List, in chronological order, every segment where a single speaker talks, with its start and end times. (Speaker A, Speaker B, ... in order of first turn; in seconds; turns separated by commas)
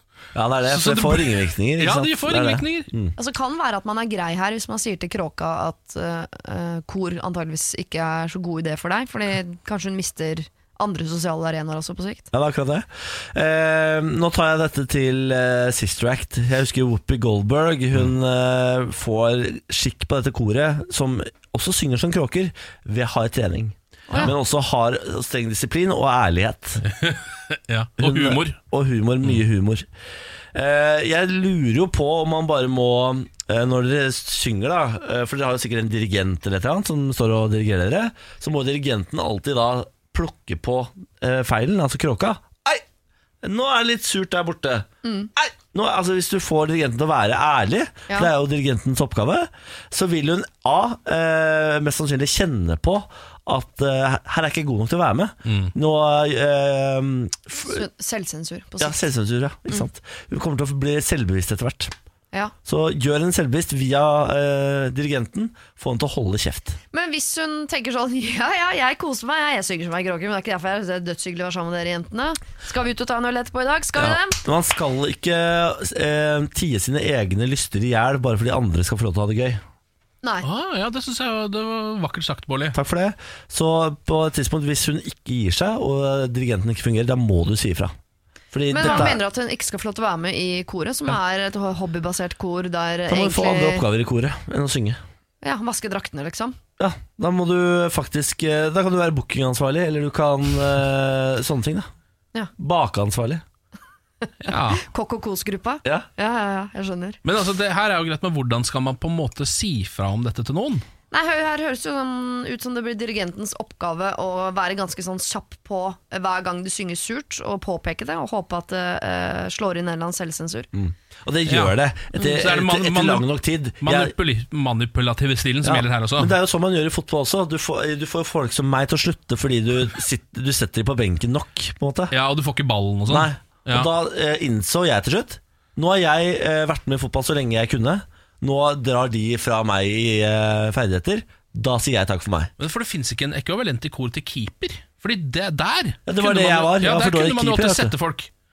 Speaker A: 0.3-3.1, Speaker B: 0.7-2.9, Speaker C: 3.1-12.3, Speaker A: 12.3-26.8, Speaker B: 26.8-28.6, Speaker A: 28.0-29.9, Speaker A: 30.5-42.8, Speaker A: 43.4-57.8, Speaker C: 45.0-45.3, Speaker B: 55.4-55.7, Speaker C: 57.6-59.1, Speaker A: 58.8-61.9, Speaker A: 62.6-66.8, Speaker C: 66.9-74.4, Speaker A: 74.0-79.6, Speaker B: 80.4-82.8, Speaker A: 82.7-87.9, Speaker A: 88.5-89.2, Speaker C: 88.7-93.8, Speaker A: 93.1-95.0, Speaker C: 95.4-96.6, Speaker A: 96.8-101.9, Speaker A: 102.6-103.4, Speaker B: 104.5-104.8, Speaker C: 104.5-107.2, Speaker B: 107.2-110.8, Speaker C: 111.1-120.7, Speaker A: 120.7-124.1, Speaker B: 121.5-126.3, Speaker A: 125.6-132.1, Speaker B: 132.1-133.9, Speaker A: 133.1-142.5, Speaker B: 142.6-148.3, Speaker A: 146.1-147.9